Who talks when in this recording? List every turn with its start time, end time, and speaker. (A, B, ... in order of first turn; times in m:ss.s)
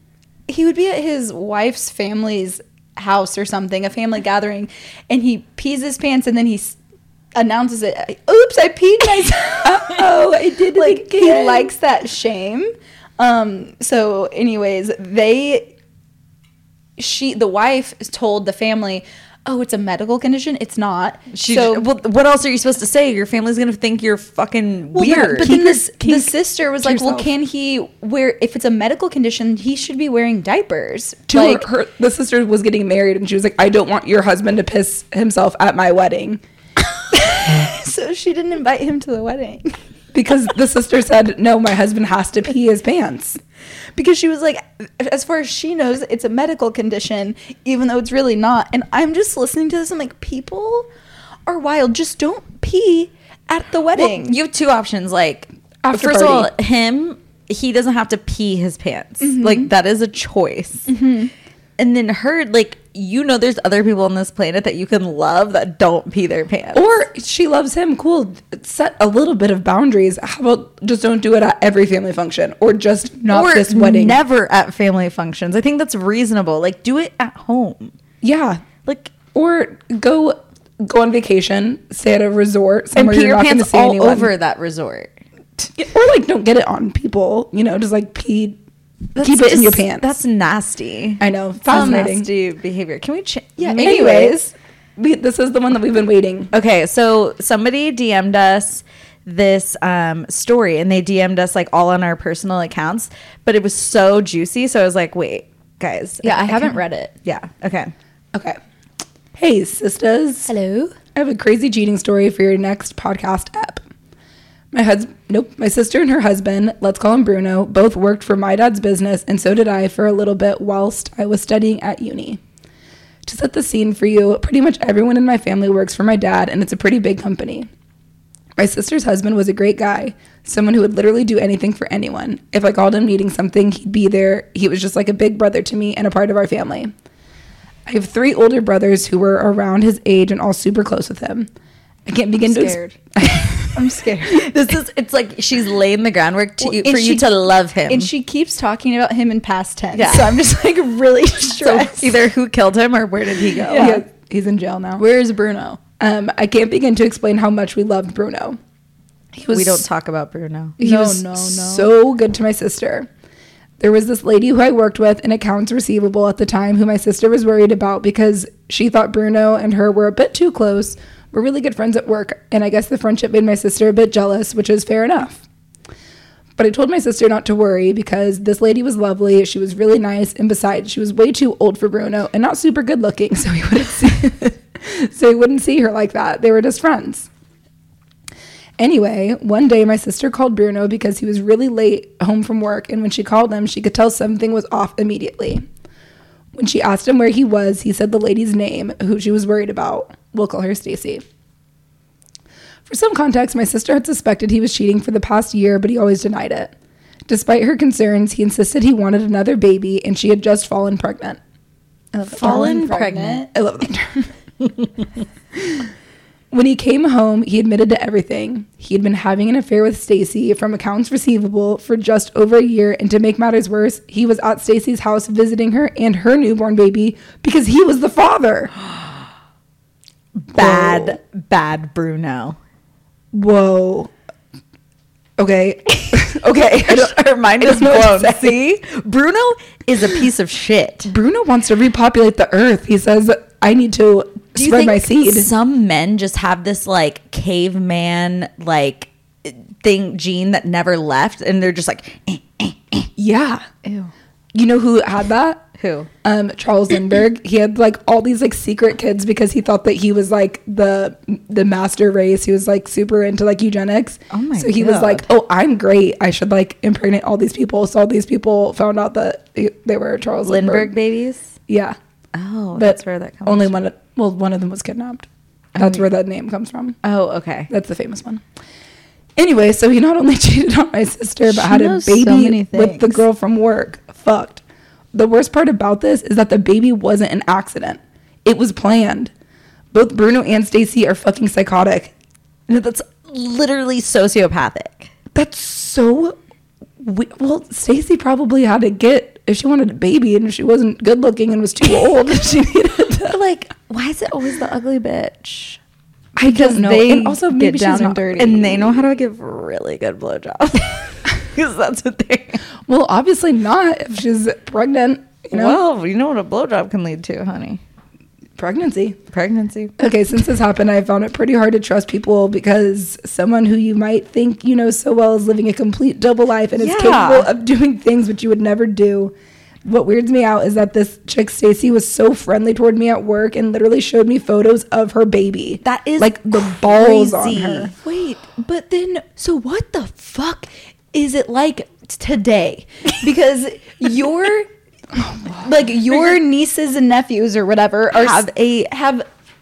0:00.5-0:06.8 A
0:07.3-0:10.1 A
0:09.6-0:11.7 B
0:10.7-0:15.7 A
0:17.0-0:21.8 A
0:21.3-0:25.6 C
0:24.9-0:31.6 A
0:25.0-0:27.3 B
0:31.3-0:36.4 B
0:37.1-0:39.8 A
0:40.1-0:43.4 B
0:44.0-0:50.9 A
0:51.4-0:54.4 A
0:53.9-1:00.9 C
0:55.8-0:56.5 B
0:59.2-0:59.7 A
1:00.9-1:01.3 A
1:01.8-1:07.0 C
1:06.7-1:14.2 B
1:13.3-1:17.9 C
1:18.2-1:24.3 B
1:18.8-1:19.1 C
1:22.9-1:25.2 C
1:25.8-1:28.6 B
1:29.2-1:30.1 B
1:29.2-1:34.3 C
1:31.2-1:32.3 B
1:31.7-1:32.0 A
1:33.6-1:34.5 A
1:33.8-1:34.4 B
1:35.0-1:36.5 B
1:36.5-1:47.9 C
1:46.2-1:47.1 A
1:49.4-1:50.5 B
1:50.5-1:51.0 A
1:51.1-1:53.8 B
1:54.7-2:02.4 B
2:03.2-2:07.7 B
2:08.6-2:16.9 B
2:17.8-2:21.5 B
2:22.0-2:23.8 B
2:22.5-2:23.0 A
2:23.7-2:24.5 A
2:24.2-2:28.1 C
2:26.6-2:27.3 A
2:27.9-2:32.2 A
2:29.9-2:30.4 C
2:31.6-2:34.0 C
2:33.6-2:34.0 A
2:33.7-2:35.0 B
2:35.0-2:35.8 A
2:36.0-2:38.6 B
2:39.3-2:39.8 B
2:39.5-2:40.8 C
2:40.8-2:41.9 A
2:40.8-2:43.1 B
2:43.8-2:55.4 B
2:56.6-3:07.3 B
3:08.8-3:15.6 B
3:16.5-3:21.2 B
3:22.8-3:26.7 B
3:27.3-3:31.4 B
3:32.1-3:34.3 B
3:32.3-3:33.5 A
3:32.3-3:33.4 C
3:36.5-3:48.7 B
3:50.4-3:52.6 C
3:50.5-3:51.2 B
3:53.3-3:54.1 B
3:55.4-3:58.6 B
3:56.1-4:01.1 C
4:01.1-4:05.5 B
4:04.6-4:13.1 C
4:13.2-4:13.8 B
4:14.5-4:15.6 B
4:15.8-4:16.1 C
4:16.2-4:30.9 B
4:24.3-4:25.3 C
4:30.4-4:31.5 C
4:31.7-4:32.0 B
4:32.3-4:33.8 C
4:32.8-4:37.0 B
4:35.8-4:36.0 C
4:37.0-4:37.7 C
4:37.7-4:38.4 B
4:39.4-4:44.6 B
4:41.4-4:43.2 A
4:45.1-4:49.3 B
4:49.9-4:52.1 B
4:52.7-4:55.1 C
4:55.3-4:56.4 B
4:57.0-5:03.4 B
5:03.2-5:05.8 C
5:06.4-5:08.9 B
5:06.4-5:08.7 A
5:08.4-5:12.6 C
5:12.9-5:15.8 B
5:15.5-5:17.8 C
5:18.6-5:19.2 B
5:19.3-5:19.9 C
5:20.0-5:29.3 B
5:26.8-5:27.5 C
5:29.8-5:37.9 B
5:35.8-5:37.9 C
5:37.9-5:44.7 A
5:45.2-5:45.6 B
5:45.6-5:49.2 A
5:48.1-5:49.0 C